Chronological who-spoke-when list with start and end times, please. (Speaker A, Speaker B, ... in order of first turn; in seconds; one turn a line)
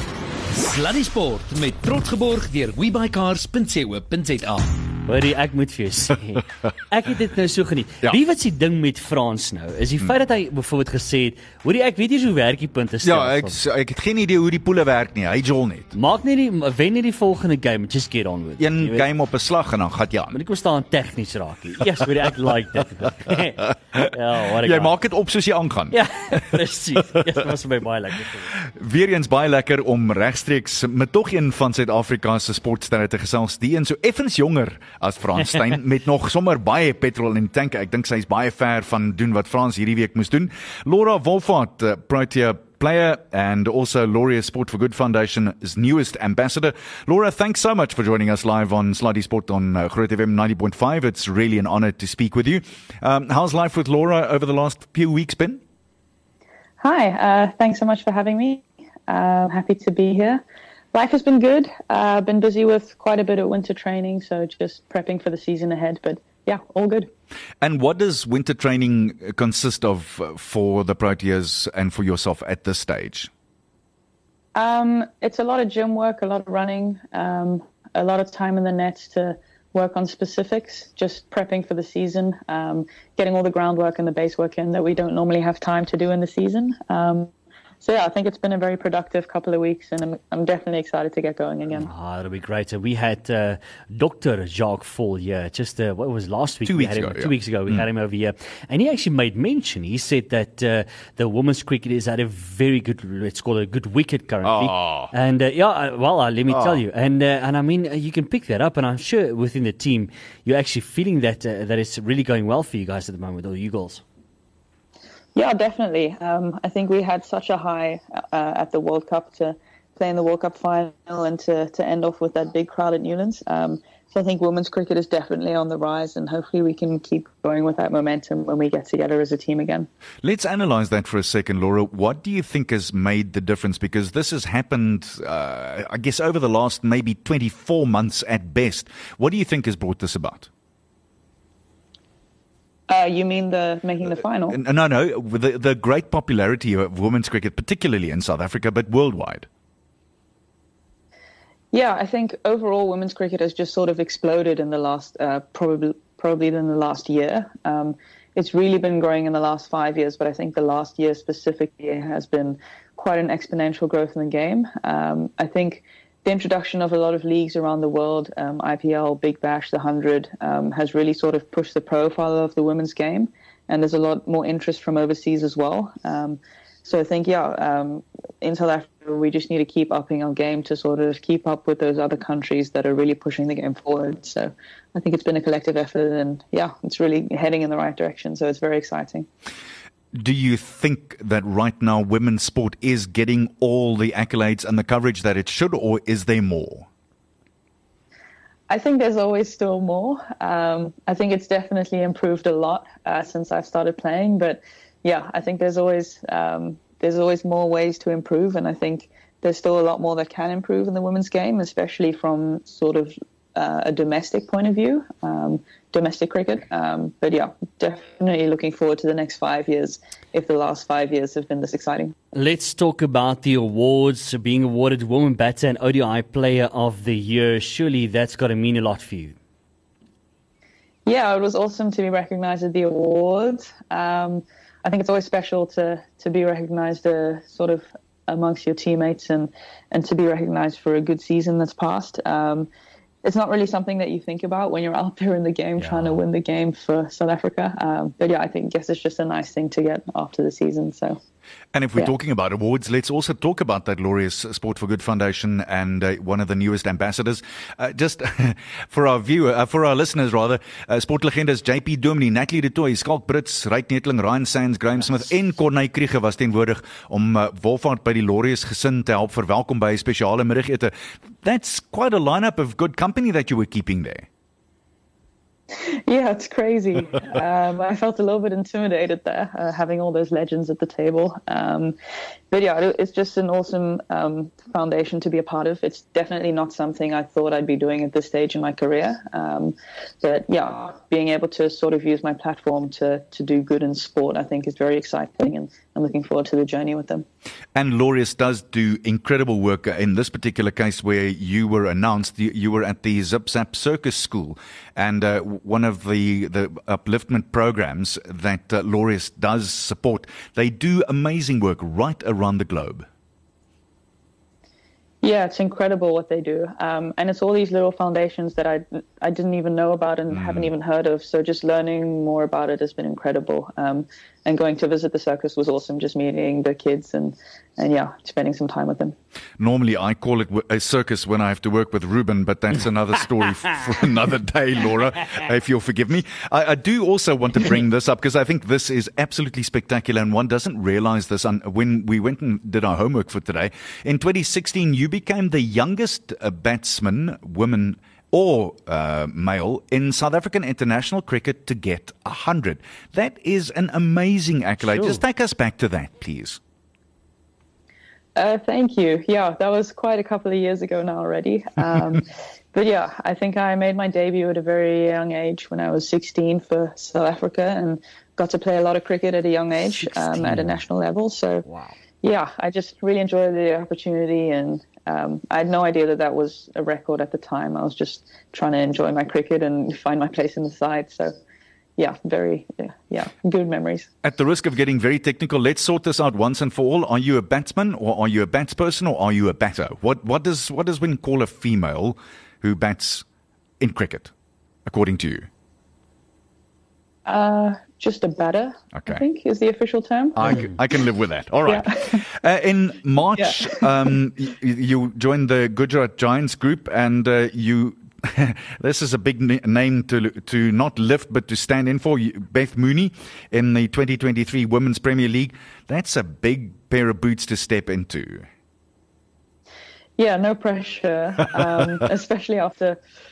Speaker A: 0.5-4.7
Speaker B: 5.1-13.6
Speaker C: 13.0-15.9
Speaker B: 15.9-19.1
Speaker C: 18.6-20.4
Speaker B: 20.3-24.9
Speaker C: 24.6-26.0
Speaker B: 25.9-28.6
Speaker C: 28.7-55.6
Speaker D: 56.8-67.1
Speaker C: 67.6-73.3
Speaker D: 74.5-91.9
Speaker B: 91.7-114.0
Speaker C: 96.7-97.8
Speaker C: 104.4-105.1
Speaker C: 106.5-106.8
Speaker D: 115.3-129.9
Speaker C: 130.2-140.5
Speaker D: 142.9-144.6
Speaker C: 144.5-149.5
Speaker D: 151.7-189.3
Speaker C: 190.1-196.9
Speaker D: 198.7-222.1
Speaker B: 222.3-229.4
Speaker D: 231.1-242.7
Speaker D: 243.2-251.2
Speaker B: 245.8-246.3
Speaker C: 251.7-274.3
Speaker D: 276.1-281.9
Speaker D: 282.5-297.2
Speaker C: 297.8-313.1
Speaker D: 315.2-329.2
Speaker C: 320.3-320.7
Speaker C: 329.6-356.6
Speaker B: 354.8-355.2
Speaker D: 358.4-371.6
Speaker B: 370.0-370.8
Speaker B: 371.7-371.9
Speaker D: 372.2-381.3
Speaker D: 382.0-384.1
Speaker C: 384.2-393.2
Speaker C: 393.8-394.3
Speaker C: 394.9-395.5
Speaker D: 397.3-400.7
Speaker C: 399.0-399.2
Speaker C: 400.4-418.5
Speaker D: 401.7-402.2
Speaker D: 403.4-403.9
Speaker D: 420.2-423.0